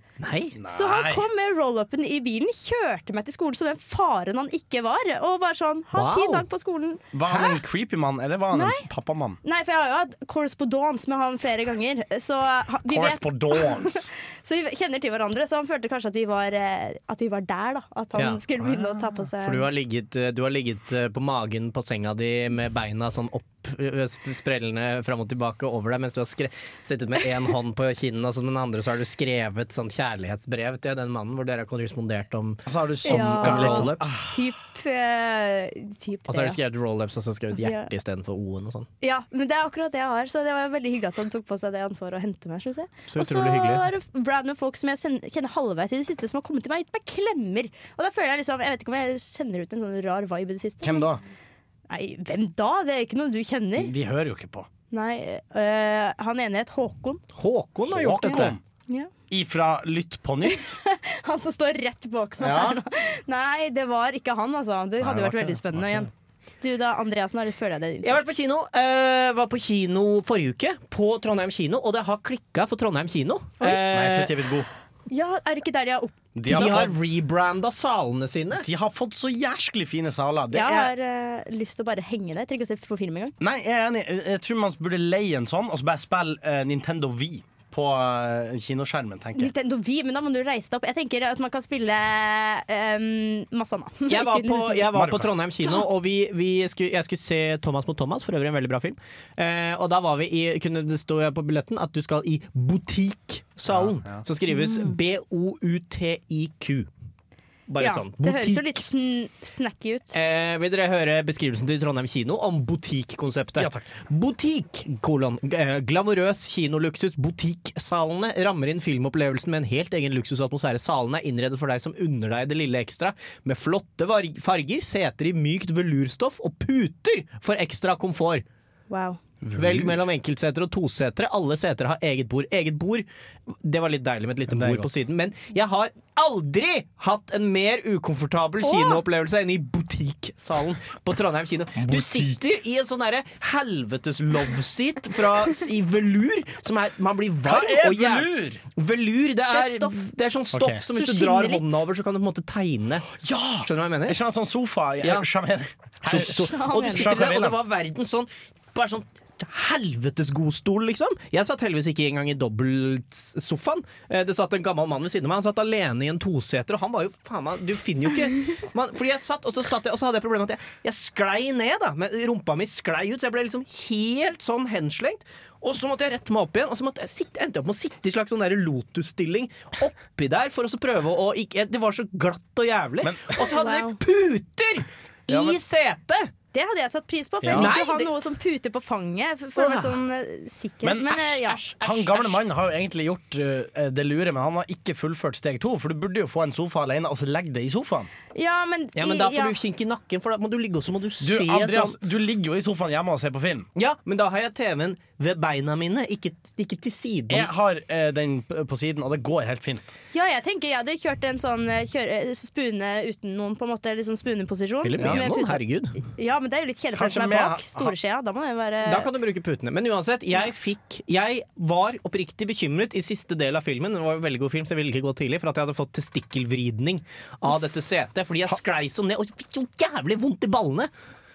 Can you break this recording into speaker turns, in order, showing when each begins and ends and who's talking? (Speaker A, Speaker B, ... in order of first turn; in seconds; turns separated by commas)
Speaker A: 0.2-0.6, Speaker B: 0.5-1.2, Speaker C: 0.7-7.5, Speaker A: 5.9-6.4, Speaker B: 7.1-9.4, Speaker C: 8.5-8.9, Speaker C: 9.4-19.6, Speaker B: 12.9-14.1, Speaker A: 18.1-18.4, Speaker B: 18.6-19.1, Speaker A: 19.4-34.2, Speaker B: 32.7-34.4, Speaker C: 33.0-36.6, Speaker A: 36.3-38.9, Speaker C: 37.5-37.9, Speaker C: 39.0-51.0, Speaker A: 43.1-43.9, Speaker B: 50.8-51.2, Speaker C: 51.9-53.9, Speaker B: 53.8-54.7, Speaker C: 54.9-57.2, Speaker A: 57.3-58.5, Speaker B: 57.9-58.6, Speaker C: 58.3-59.1, Speaker B: 59.3-60.8, Speaker C: 60.4-66.1, Speaker A: 62.4-62.8, Speaker B: 65.0-66.1, Speaker C: 66.6-68.2, Speaker A: 68.0-74.4, Speaker B: 73.8-74.7, Speaker C: 75.1-76.1, Speaker B: 76.3-76.9, Speaker A: 76.5-78.7, Speaker B: 78.6-80.9, Speaker C: 80.5-83.3, Speaker B: 83.4-89.5, Speaker C: 89.3-94.9, Speaker A: 94.1-106.9, Speaker B: 94.9-95.4, Speaker B: 103.7-104.2, Speaker C: 104.5-105.0, Speaker A: 107.7-108.7, Speaker C: 107.8-110.1, Speaker A: 110.1-128.4, Speaker B: 113.6-113.9, Speaker C: 128.9-129.2, Speaker B: 129.4-130.1, Speaker A: 129.6-153.1, Speaker B: 134.5-135.0, Speaker C: 138.6-139.0, Speaker B: 141.8-142.4, Speaker B: 147.4-148.6, Speaker C: 149.5-150.1, Speaker B: 150.5-150.8, Speaker C: 150.9-151.8, Speaker B: 153.1-157.6, Speaker A: 153.6-154.2, Speaker A: 155.0-155.3, Speaker A: 156.0-186.3, Speaker C: 156.3-157.1, Speaker B: 183.0-183.8, Speaker C: 183.4-184.0, Speaker B: 185.3-185.6, Speaker C: 186.5-191.6, Speaker B: 187.4-187.7, Speaker A: 187.5-188.1, Speaker A: 189.6-189.9, Speaker B: 190.8-198.1, Speaker A: 191.2-192.4, Speaker C: 198.3-199.6, Speaker A: 198.9-202.0, Speaker B: 201.2-203.7, Speaker A: 203.8-207.5, Speaker B: 207.3-209.9, Speaker C: 210.1-219.1, Speaker A: 214.8-216.0, Speaker B: 215.0-215.2, Speaker B: 216.9-217.9, Speaker A: 218.8-230.9